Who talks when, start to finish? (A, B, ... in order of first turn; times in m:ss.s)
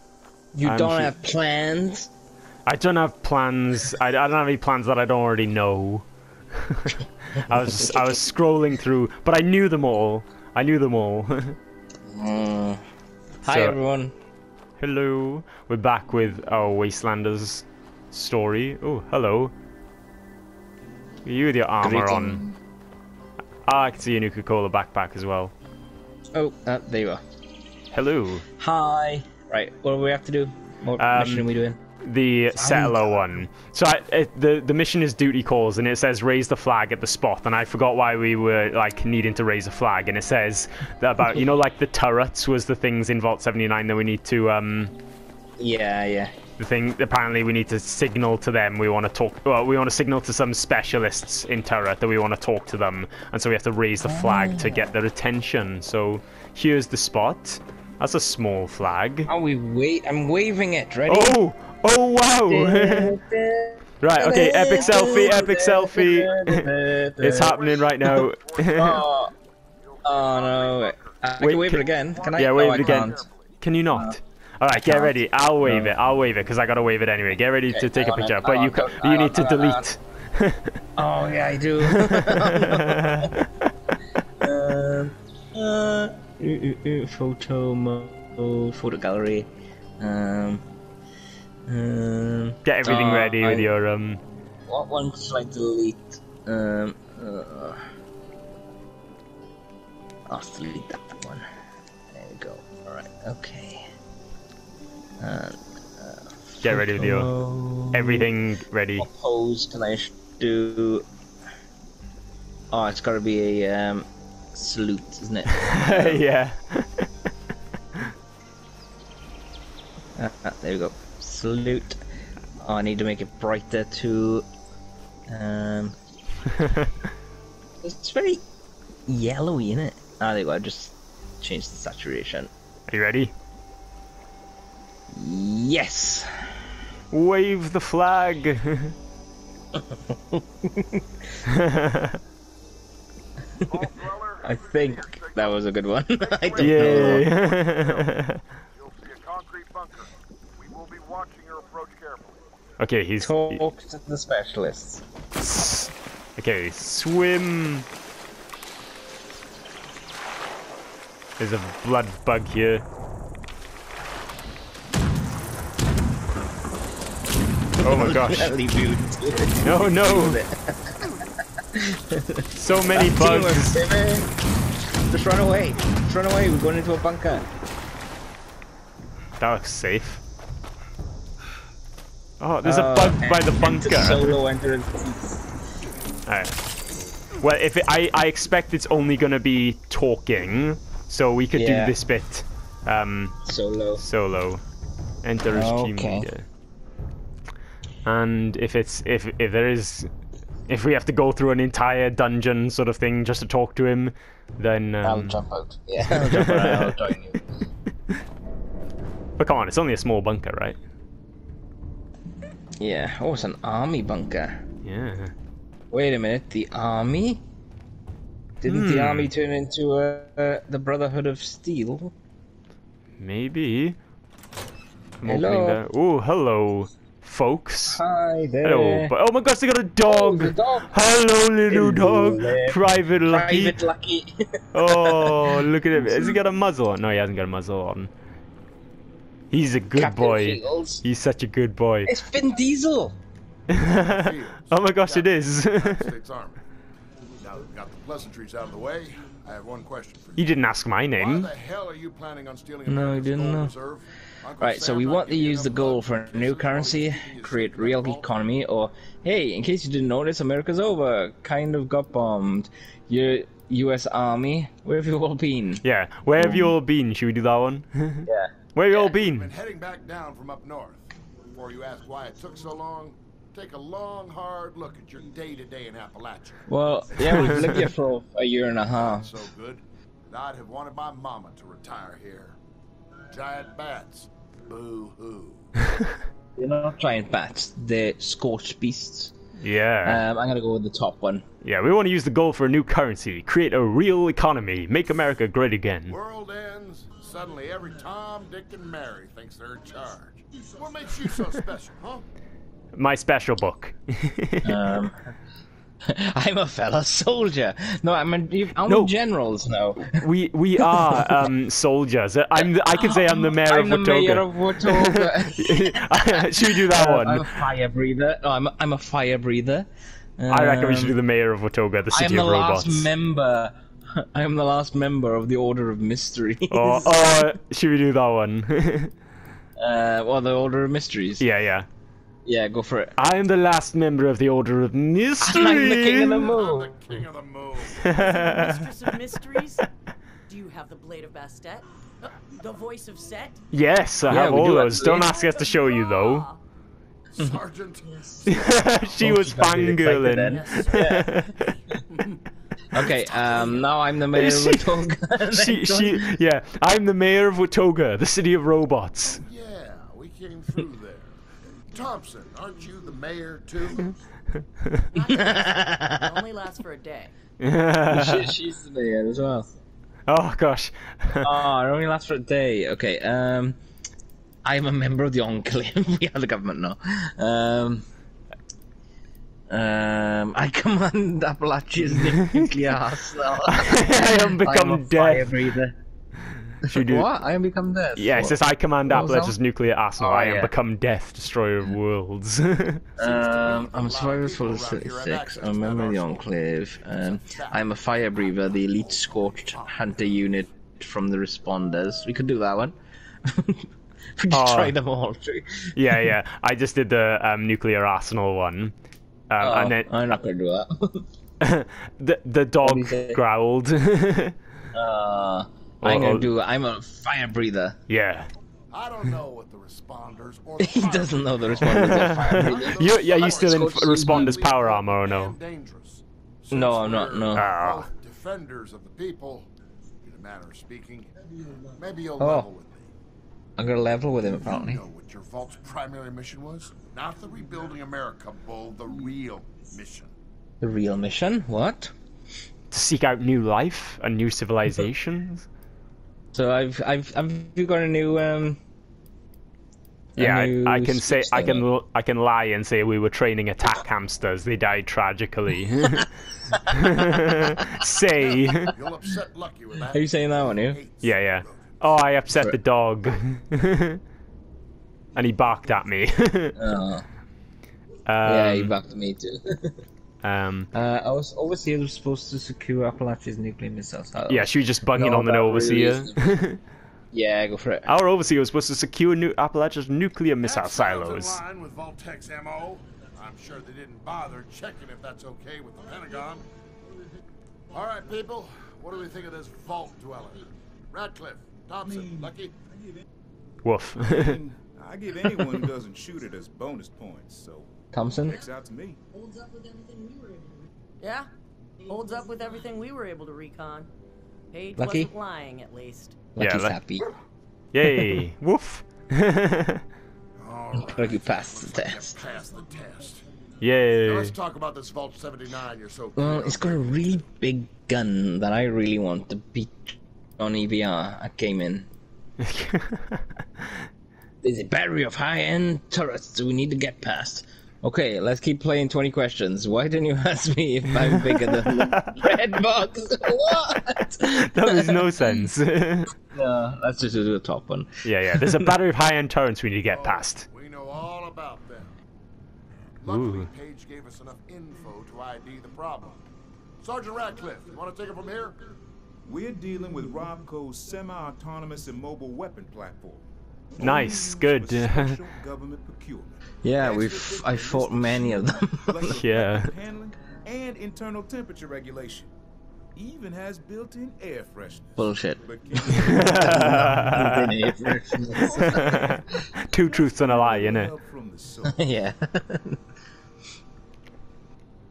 0:00.5-0:02.1 A
0:00.6-0:01.1 B
0:02.6-0:11.6 B
0:07.5-0:08.1 A
0:12.0-0:12.8 A
0:13.4-0:14.1 A
0:13.4-0:13.8 B
0:14.8-0:19.5 B
0:21.2-0:22.4 B
0:21.8-0:22.6 A
0:23.6-0:25.5 B
0:26.3-0:27.2 A
0:27.9-0:28.4 B
0:28.6-0:31.8 A
0:31.0-0:31.5 B
0:32.0-0:44.9 B
0:32.5-0:33.1 A
0:45.6-0:46.3 A
0:46.6-0:59.3 B
0:54.0-0:54.9 A
0:59.3-1:01.4 A
1:01.1-1:03.1 B
1:02.4-1:09.3 A
1:04.0-1:06.7 B
1:04.8-1:05.1 C
1:07.2-1:09.0 B
1:08.2-1:13.5 C
1:10.0-1:13.2 A
1:11.4-1:20.8 B
1:14.7-1:15.9 A
1:17.7-1:19.9 A
1:21.0-1:23.3 A
1:21.9-1:23.7 B
1:24.4-1:30.6 A
1:31.7-1:33.7 A
1:32.6-1:34.2 B
1:34.7-1:37.8 A
1:40.3-1:41.5 A
1:42.1-1:43.9 A
1:45.2-1:48.3 A
1:46.6-1:47.3 B
1:47.9-1:49.0 B
1:49.0-1:51.0 A
1:52.7-1:56.2 A
1:55.5-1:57.1 B
2:00.2-2:02.0 A
2:02.6-2:04.5 A
2:05.3-2:05.9 A
2:06.6-2:06.9 B
2:07.8-2:08.4 A
2:09.0-2:12.5 A
2:12.9-2:13.3 B
2:15.1-2:16.7 A
2:17.1-2:18.9 B
2:19.7-2:21.1 A
2:21.4-2:22.2 B
2:23.6-2:23.9 A
2:23.6-2:28.2 C
2:24.4-2:27.3 A
2:26.6-2:28.4 B
2:28.7-2:32.5 C
2:32.8-2:33.6 B
2:33.2-2:35.0 A
2:35.4-2:37.9 B
2:41.4-2:42.8 B
2:47.8-2:48.5 B
2:47.8-2:54.3 A
2:49.6-2:50.4 B
2:52.6-2:53.8 B
2:55.1-2:57.5 A
2:59.4-3:00.2 B
3:02.4-3:04.4 B
3:02.6-3:05.5 A
3:06.3-3:06.6 B
3:07.4-3:13.4 B
3:11.5-3:11.9 A
3:13.4-3:14.0 A
3:14.0-3:14.6 B
3:15.2-3:16.4 B
3:15.5-3:16.3 A
3:18.0-3:20.1 B
3:20.7-3:25.4 B
3:25.0-3:27.7 A
3:26.0-3:27.0 B
3:29.4-3:30.8 B
3:32.8-3:34.6 A
3:34.8-3:35.3 B
3:35.9-3:37.4 A
3:38.6-3:42.1 A
3:38.6-3:39.3 B
3:43.2-3:44.0 B
3:45.2-3:48.0 B
3:45.2-3:45.8 A
3:47.9-3:49.1 A
3:48.6-3:53.8 B
3:50.0-3:51.0 A
3:51.7-3:56.4 A
3:54.7-3:58.1 B
3:59.5-4:02.1 B
4:00.0-4:01.0 A
4:02.0-4:03.2 A
4:03.7-4:06.1 B
4:03.7-4:06.6 C
4:07.5-4:10.6 C
4:10.4-4:11.5 B
4:11.2-4:18.3 C
4:12.8-4:13.7 A
4:14.6-4:25.8 A
4:25.8-4:29.5 B
4:26.4-4:26.8 A
4:28.2-4:29.1 A
4:29.0-4:37.9 C
4:36.7-4:39.3 A
4:37.3-4:37.6 B
4:38.9-4:42.6 C
4:43.3-4:46.0 C
4:46.6-4:49.3 A
4:49.6-4:50.2 B
4:50.0-4:51.4 A
4:51.6-4:56.1 B
4:56.1-5:02.2 C
5:02.9-5:04.9 B
5:04.6-5:05.2 A
5:06.0-5:11.5 A
5:08.8-5:09.1 B
5:10.2-5:17.7 B
5:12.6-5:21.2 A
5:20.5-5:23.1 B
5:22.1-5:27.5 A
5:26.7-5:29.1 B
5:29.8-5:31.4 A
5:31.4-5:31.9 B
5:32.4-5:33.1 A
5:33.2-5:36.5 B
5:35.4-5:36.9 A
5:35.8-5:38.9 C
5:38.0-5:38.8 B
5:38.2-5:39.8 D
5:40.5-5:43.6 D
5:43.7-5:46.5 B
5:44.3-5:45.3 A
5:44.9-5:46.6 D
5:47.3-5:49.6 C
5:48.4-5:51.7 B
5:49.2-5:51.3 A
5:50.4-5:52.4 C
5:52.9-5:56.4 A
5:52.9-5:53.8 C
5:54.3-5:59.4 B
5:59.4-6:01.4 C
6:01.9-6:04.2 C
6:05.1-6:07.3 D
6:05.2-6:06.4 A
6:07.6-6:08.5 B
6:08.1-6:09.7 A
6:10.3-6:11.5 B
6:11.4-6:13.8 A
6:14.6-6:18.0 A
6:19.7-6:26.0 A
6:22.3-6:22.7 B
6:23.6-6:25.5 B
6:26.8-6:27.3 B
6:26.8-6:29.6 A
6:28.2-6:33.0 B
6:30.2-6:30.7 A
6:33.2-6:37.8 C
6:33.2-6:46.3 A
6:38.6-6:40.7 C
6:44.5-6:44.9 B
6:46.0-6:48.9 B
6:49.5-6:50.4 B
6:49.6-6:51.3 A
6:51.6-6:54.6 B
6:52.8-6:53.4 A
6:54.9-6:58.0 A
6:56.0-6:56.5 B
6:58.1-6:58.5 B
6:58.9-7:09.7 C
7:00.8-7:04.6 A
7:01.8-7:05.5 B
7:06.7-7:07.7 A
7:07.5-7:08.1 B
7:10.2-7:11.3 C
7:11.8-7:13.1 C
7:12.4-7:12.7 A
7:13.8-7:15.0 A
7:14.4-7:20.3 C
7:20.8-7:22.1 A
7:22.9-7:25.7 B
7:26.5-7:28.8 A
7:30.4-7:31.9 A
7:30.4-7:36.3 B
7:36.9-7:38.9 B
7:36.9-7:37.8 A
7:38.9-7:42.0 C
7:40.1-7:41.0 A
7:41.2-7:44.2 B
7:45.4-7:46.8 B
7:46.8-7:47.2 A
7:48.3-7:49.0 B
7:48.4-7:50.0 A
7:50.4-7:50.9 B
7:50.9-7:56.6 A
7:54.5-7:56.8 B
7:57.3-7:58.1 A
7:58.1-8:01.6 B
8:00.6-8:06.7 C
8:07.9-8:12.8 C
8:13.8-8:14.6 B
8:14.2-8:19.2 E
8:18.1-8:18.6 A
8:21.2-8:21.5 D
8:22.0-8:24.1 D
8:24.7-8:26.4 D
8:25.0-8:25.3 A
8:26.5-8:27.3 A
8:26.6-8:27.0 B
8:27.9-8:30.0 B
8:28.0-8:28.4 A
8:30.6-8:33.4 C
8:31.0-8:32.4 A
8:33.8-8:34.6 B
8:34.2-8:37.4 C
8:36.4-8:42.1 A
8:42.6-8:43.4 B
8:44.6-8:55.7 A
8:51.2-8:52.5 B
8:54.2-8:56.3 B
8:56.4-8:58.9 A
8:58.2-9:00.6 B
9:00.0-9:02.1 C
9:03.2-9:06.4 C
9:03.2-9:03.7 B
9:07.0-9:08.9 C
9:09.4-9:22.5 E
9:14.0-9:15.4 B
9:16.8-9:19.4 A
9:19.4-9:19.9 B
9:23.1-9:27.7 E
9:25.2-9:29.3 A
9:26.1-9:27.8 B
9:28.3-9:32.0 E
9:28.8-9:31.1 B
9:31.8-9:33.0 A